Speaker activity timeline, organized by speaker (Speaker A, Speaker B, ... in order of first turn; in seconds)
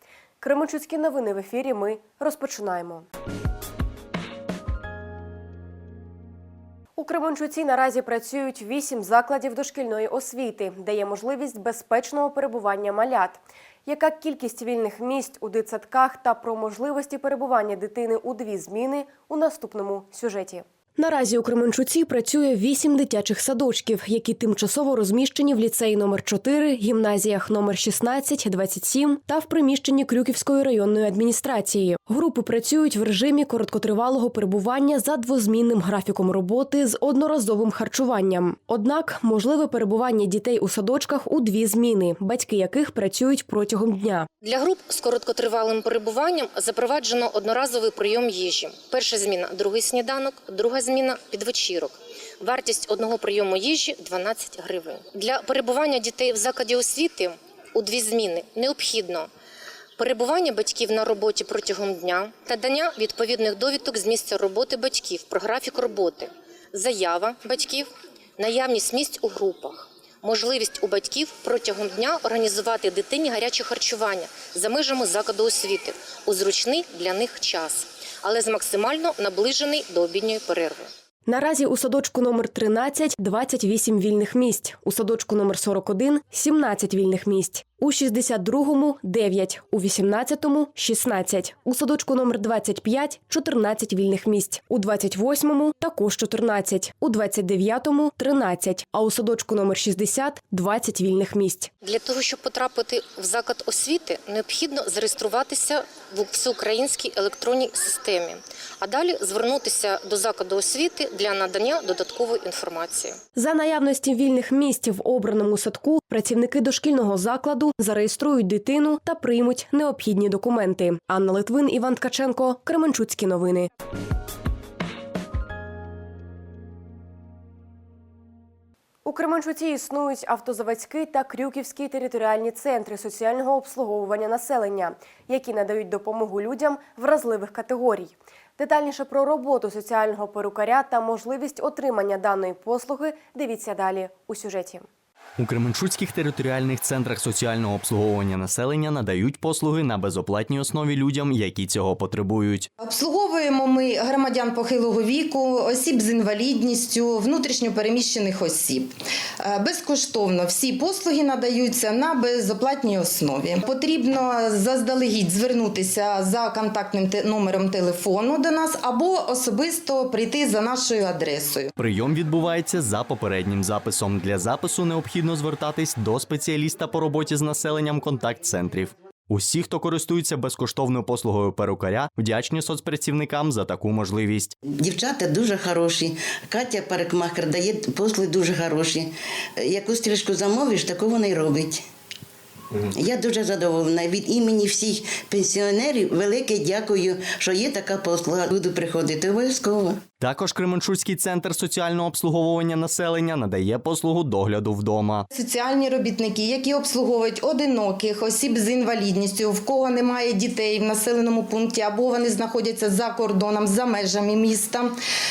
Speaker A: 0.4-3.1, 7.0-44.3, 81.2-101.7, 113.3-123.7, 129.0-144.9
Speaker B: 44.4-59.3, 60.0-80.9, 101.8-113.2
Speaker C: 145.4-152.7, 171.8-184.5, 200.2-205.2
Speaker D: 152.8-171.7, 205.3-214.9
Speaker E: 184.7-191.8, 192.9-200.0